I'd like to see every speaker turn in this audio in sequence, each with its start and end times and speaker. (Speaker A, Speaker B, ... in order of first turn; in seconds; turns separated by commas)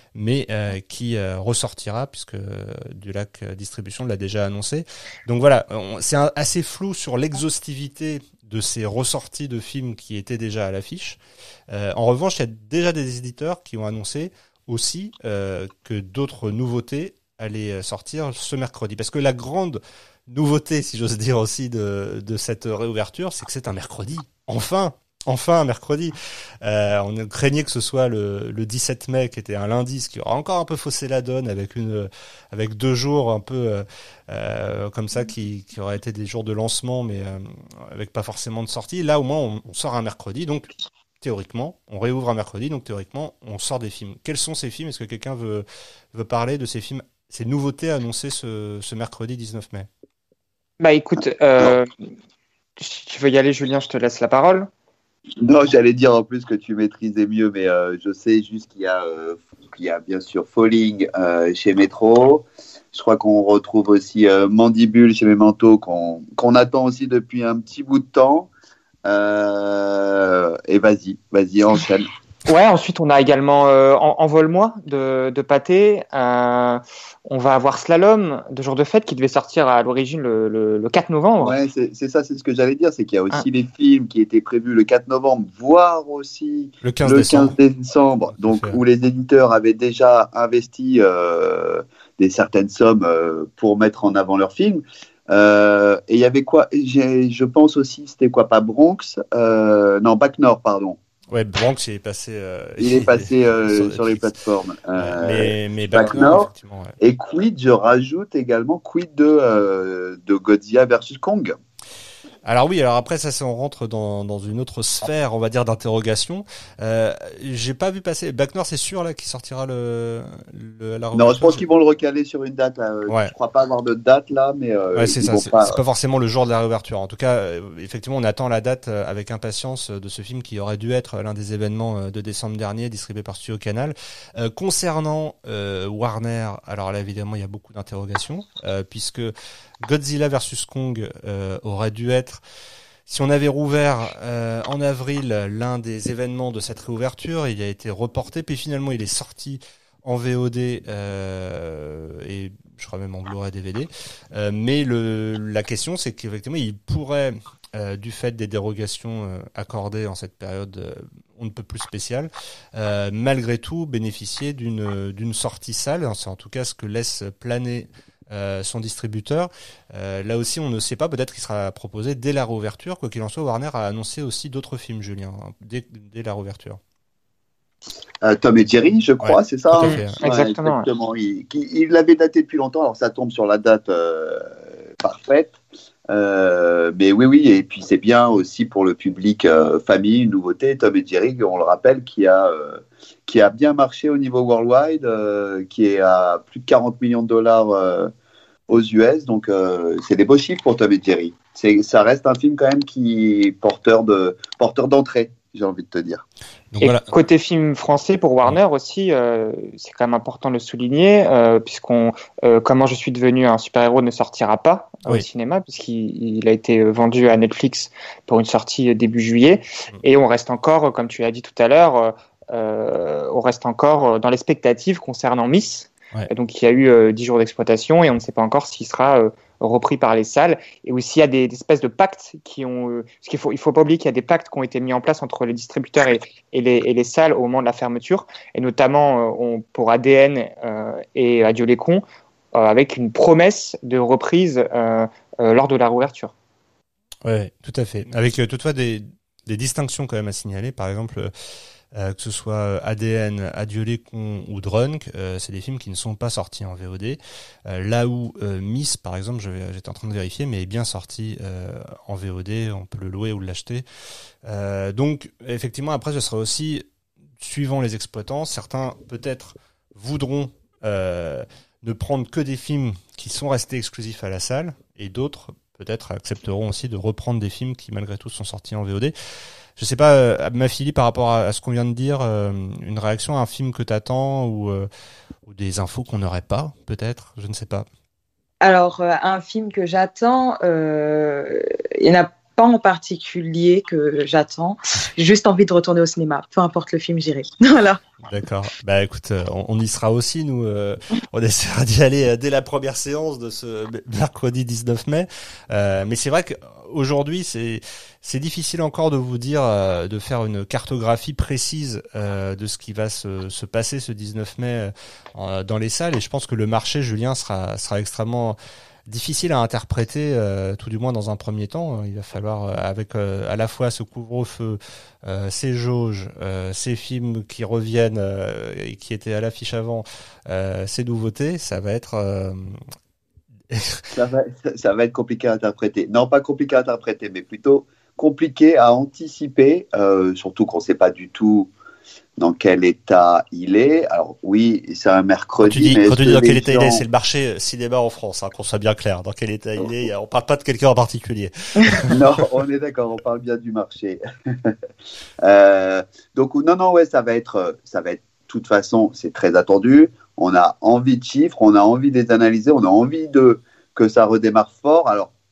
Speaker A: 0.1-40.7, Speaker A: 41.2-49.9, Speaker B: 50.8-51.9, Speaker B: 52.8-54.7, Speaker C: 55.4-68.5, Speaker C: 69.0-72.1, Speaker B: 72.5-81.5, Speaker C: 81.4-101.0, Speaker A: 86.8-87.5, Speaker A: 88.4-88.8, Speaker A: 101.3-104.3, Speaker C: 102.8-106.5, Speaker A: 105.0-106.9, Speaker C: 107.0-111.6, Speaker A: 112.4-121.6, Speaker C: 121.2-125.8, Speaker A: 125.0-142.4, Speaker A: 143.1-176.8, Speaker C: 178.2-185.6, Speaker A: 179.2-180.2, Speaker B: 179.8-180.8, Speaker C: 186.1-198.1, Speaker C: 198.7-206.2, Speaker A: 206.7-207.1, Speaker B: 206.8-246.3, Speaker A: 247.2-251.3, Speaker A: 251.9-263.8, Speaker A: 264.4-266.9, Speaker A: 267.4-279.1, Speaker A: 279.8-284.9, Speaker A: 285.4-287.9, Speaker D: 288.6-298.0, Speaker A: 298.2-332.8, Speaker A: 333.7-334.0, Speaker C: 334.1-341.7, Speaker C: 342.4-347.0, Speaker A: 345.6-352.1, Speaker C: 352.1-354.8, Speaker C: 355.4-365.3